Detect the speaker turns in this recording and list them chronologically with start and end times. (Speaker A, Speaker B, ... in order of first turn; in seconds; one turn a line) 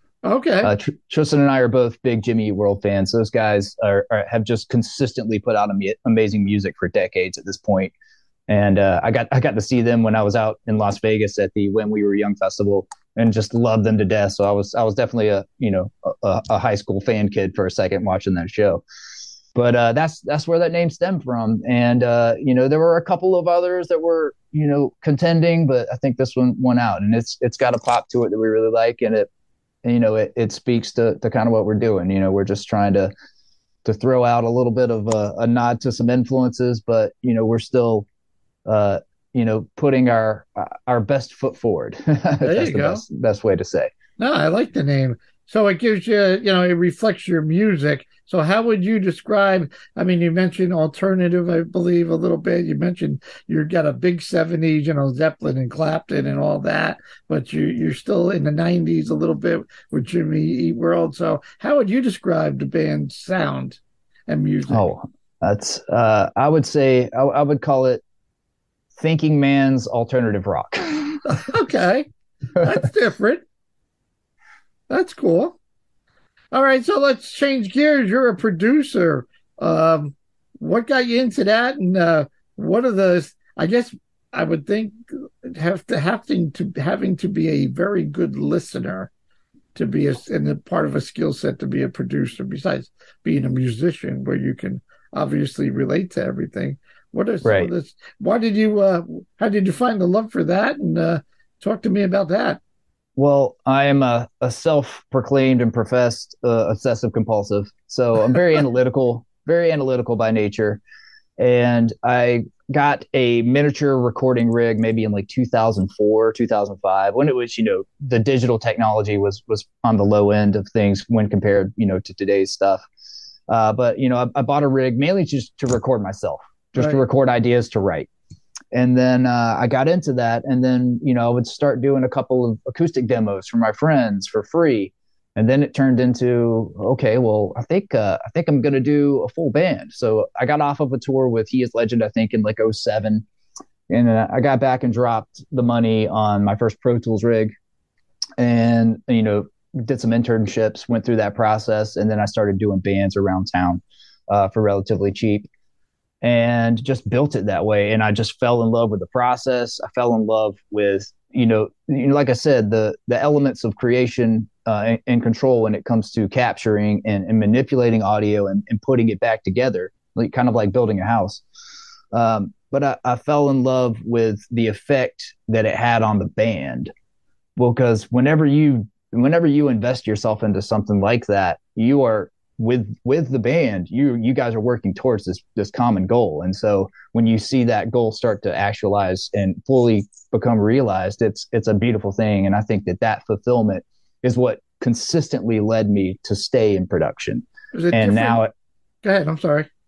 Speaker A: 0.2-0.7
Speaker B: 0.6-7.9
Speaker B: 8.5-18.8
Speaker B: 19.5-29.3
Speaker B: 29.8-33.1
Speaker B: 33.8-38.0
Speaker B: 38.6-43.9
Speaker A: 42.4-43.0
Speaker A: 44.2-64.8
Speaker B: 64.7-68.0
Speaker B: 69.0-71.2
Speaker A: 71.2-73.4
Speaker A: 74.9-75.5
Speaker A: 76.5-89.1
Speaker A: 89.7-102.6
Speaker B: 97.4-97.7
Speaker B: 103.2-110.8
Speaker B: 111.4-122.8
Speaker B: 123.5-128.1
Speaker A: 126.8-127.0
Speaker B: 128.7-143.2
Speaker B: 143.9-147.5
Speaker B: 148.4-155.5
Speaker B: 156.2-171.4
Speaker B: 172.1-176.9
Speaker B: 177.6-198.5
Speaker A: 197.7-198.4
Speaker A: 199.0-199.7